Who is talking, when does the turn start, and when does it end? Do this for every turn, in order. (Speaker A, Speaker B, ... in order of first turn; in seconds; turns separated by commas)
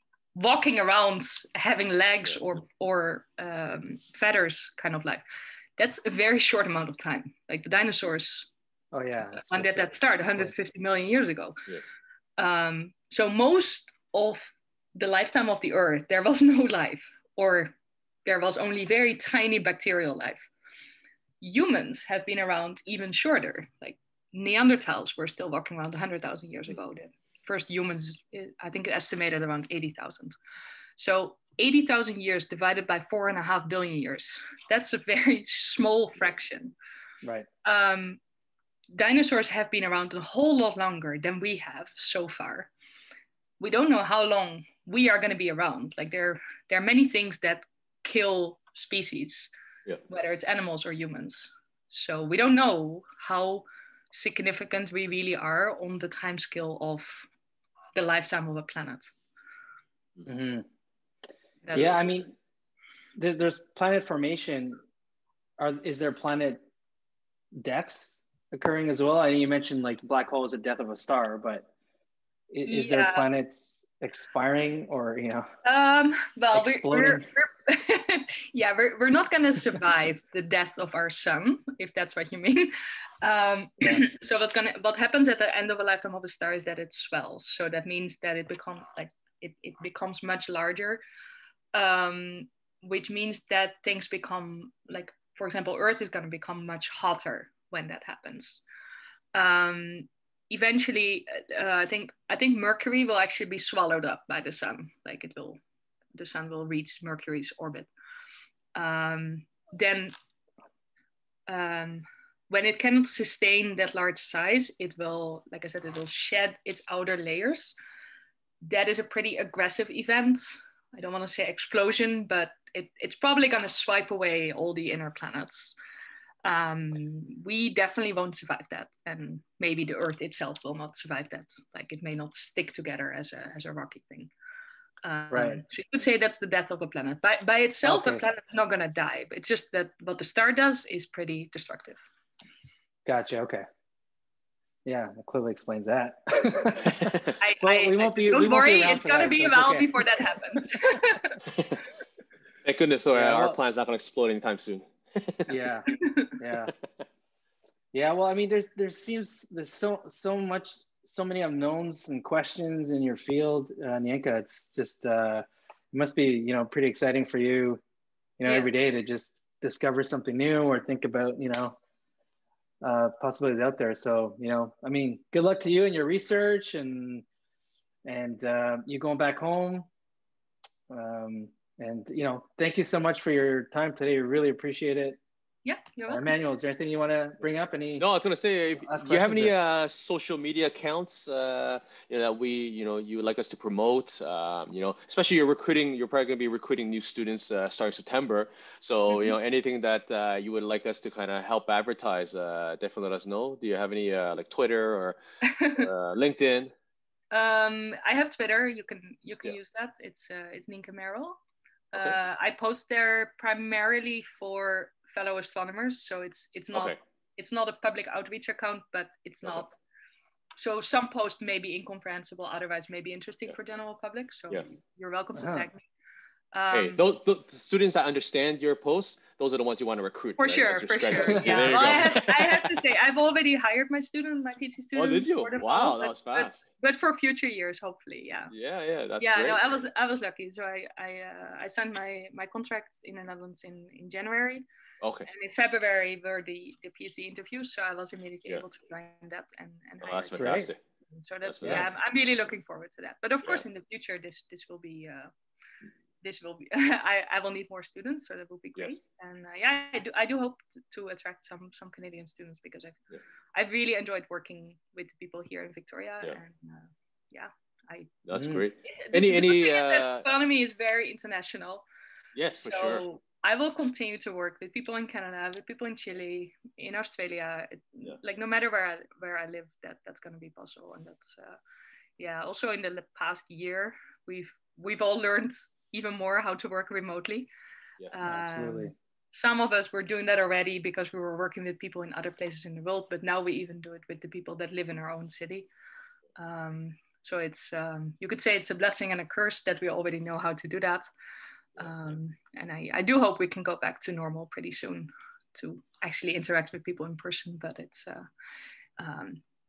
Speaker A: 0.3-5.2, Speaker A: 5.8-8.5, Speaker B: 8.9-10.5, Speaker A: 9.3-11.7, Speaker A: 12.4-20.5, Speaker A: 21.4-30.4, Speaker A: 31.0-36.8, Speaker A: 37.6-38.2, Speaker A: 38.9-42.7, Speaker A: 43.6-49.5, Speaker A: 50.1-57.3, Speaker A: 58.0-59.1, Speaker B: 60.3-60.7, Speaker A: 61.6-62.1, Speaker B: 61.7-62.4, Speaker B: 63.2-64.8, Speaker B: 65.6-66.6, Speaker B: 67.6-71.7, Speaker B: 72.5-75.5, Speaker A: 72.7-73.3, Speaker A: 75.7-91.0, Speaker B: 76.5-77.3, Speaker A: 91.7-98.6, Speaker A: 99.3-105.6, Speaker A: 106.2-107.9, Speaker A: 108.8-110.1, Speaker A: 111.5-117.8, Speaker A: 118.6-125.8, Speaker A: 126.4-134.3, Speaker A: 135.0-142.0, Speaker B: 135.3-135.6, Speaker B: 137.8-138.2, Speaker B: 143.1-143.7, Speaker B: 144.8-149.9, Speaker C: 146.9-147.3, Speaker A: 147.4-151.4, Speaker C: 152.7-155.6, Speaker B: 153.1-153.6, Speaker B: 155.5-156.7, Speaker A: 156.0-156.3, Speaker B: 157.9-167.8, Speaker B: 168.4-171.8, Speaker B: 172.8-177.2, Speaker B: 178.1-179.9, Speaker B: 180.9-185.2, Speaker A: 185.7-186.3, Speaker B: 186.1-188.1, Speaker C: 188.0-205.2, Speaker B: 188.8-189.5, Speaker A: 205.4-205.9, Speaker C: 205.7-206.7, Speaker A: 207.3-211.4, Speaker A: 211.9-219.8, Speaker A: 220.6-225.9, Speaker B: 225.4-225.7, Speaker A: 226.5-227.0, Speaker C: 226.7-232.7, Speaker A: 230.4-238.5, Speaker B: 231.2-231.8, Speaker C: 235.0-236.6, Speaker C: 238.5-239.7, Speaker A: 239.2-244.7, Speaker C: 245.0-245.3, Speaker A: 245.3-255.3, Speaker C: 250.0-250.8, Speaker B: 250.4-250.7, Speaker C: 251.4-251.9, Speaker A: 256.2-263.0, Speaker A: 263.6-268.1, Speaker C: 268.3-270.3, Speaker B: 268.3-268.6, Speaker A: 268.8-271.9, Speaker C: 272.4-273.0, Speaker A: 272.6-281.6, Speaker A: 282.2-287.5, Speaker A: 288.1-295.7, Speaker B: 288.3-288.9, Speaker A: 296.4-301.1, Speaker A: 301.8-308.2, Speaker A: 309.0-309.4